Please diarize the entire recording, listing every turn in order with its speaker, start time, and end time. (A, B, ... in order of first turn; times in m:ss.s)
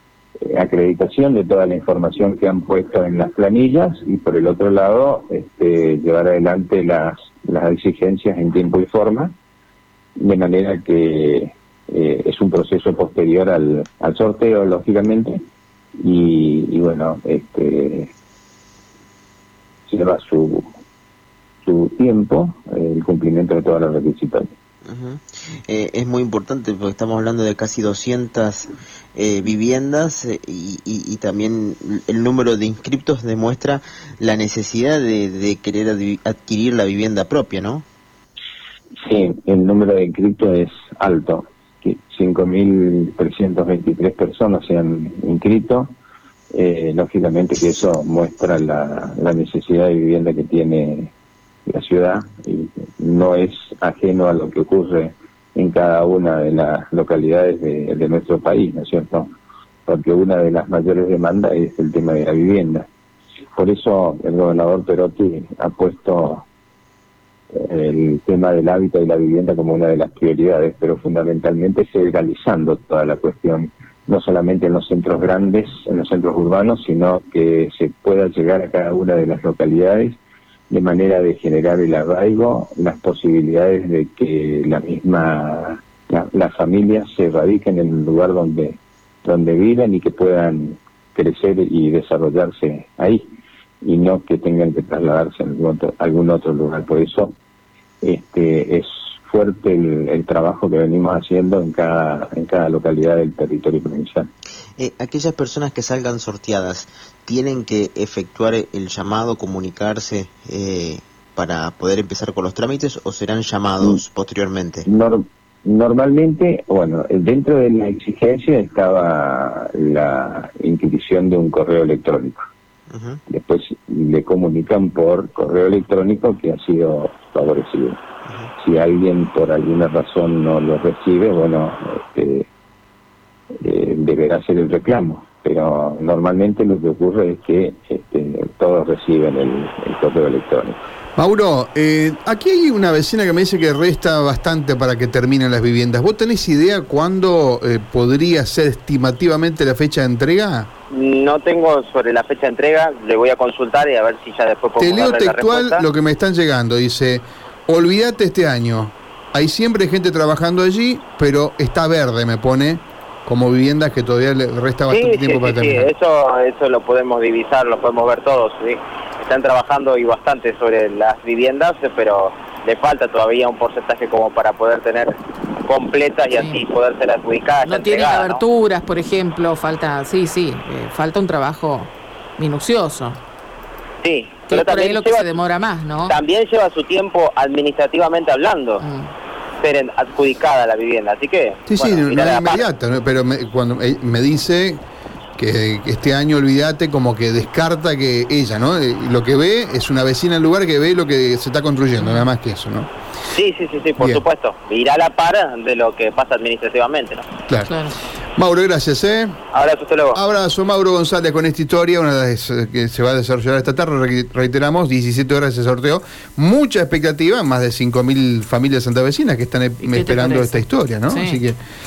0:00.5-0:09.3 A
0:10.2-0:15.4 A
0:16.0-0:18.1 A
0:19.9-0:20.8 A
0:21.6-0:24.5 A
0:24.8-0:37.8 B
0:39.0-0:45.9 A
0:46.5-0:51.1 A
0:51.7-0:59.3 A
0:59.9-1:02.8 A
1:03.6-1:06.4 A
1:07.5-1:20.2 A
1:20.7-1:37.3 A
1:38.0-1:44.3 A
1:44.8-1:54.9 B
1:54.9-2:02.4 A
2:02.9-2:03.2 B
2:03.3-2:08.0 A
2:08.6-2:12.5 A
2:13.6-2:20.8 A
2:21.2-2:30.7 C
2:30.9-2:35.8 D
2:34.8-2:45.9 C
2:44.9-2:55.1 D
2:55.7-2:58.4 D
2:56.3-2:56.6 E
2:57.6-3:03.2 E
3:04.0-3:05.3 D
3:04.5-3:06.2 E
3:06.1-3:08.8 D
3:08.8-3:09.1 E
3:09.6-3:12.6 D
3:11.7-3:14.8 C
3:15.4-3:22.9 C
3:22.0-3:22.3 E
3:23.3-3:27.2 D
3:27.6-3:28.0 E
3:28.4-3:29.4 C
3:29.5-3:30.2 D
3:30.1-3:41.6 C
3:39.8-3:41.4 E